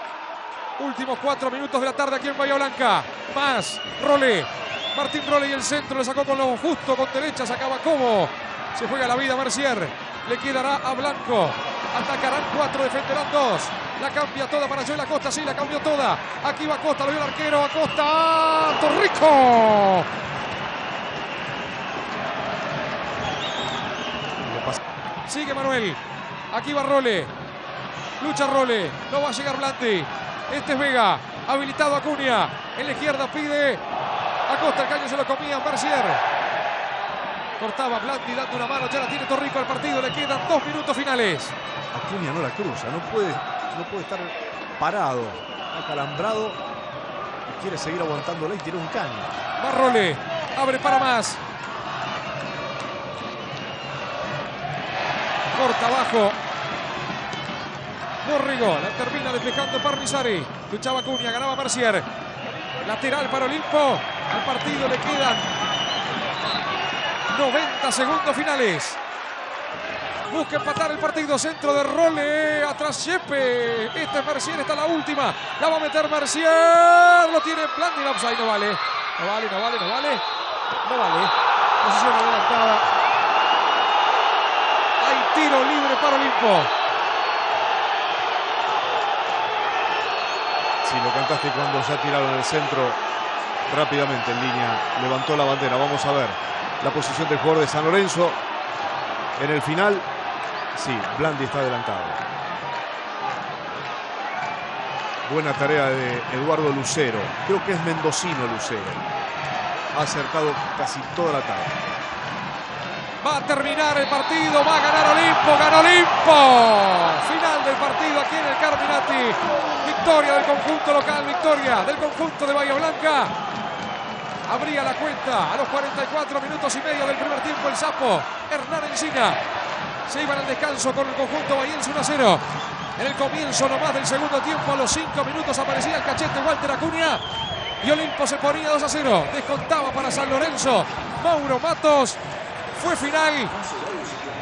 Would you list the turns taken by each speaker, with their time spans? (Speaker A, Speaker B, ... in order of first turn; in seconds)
Speaker A: 0.8-20.1, 25.3-26.0, 26.5-27.3, 28.2-33.8, 34.5-36.2, 37.6-41.5, 49.6-51.4, 55.5-56.4, 58.2-62.1, 62.8-65.5, 67.3-69.0, 70.3-80.2, 80.8-82.9, 85.0-86.7, 113.2-123.3, 124.5-129.4, 130.1-132.4, 133.0-137.2, 137.8-142.2, 142.7-143.6
Speaker B: 24.4-24.8, 41.9-46.6, 47.5-49.3, 90.8-93.0, 93.7-98.4, 99.4-100.1, 100.7-102.2, 105.2-109.0, 109.9-111.7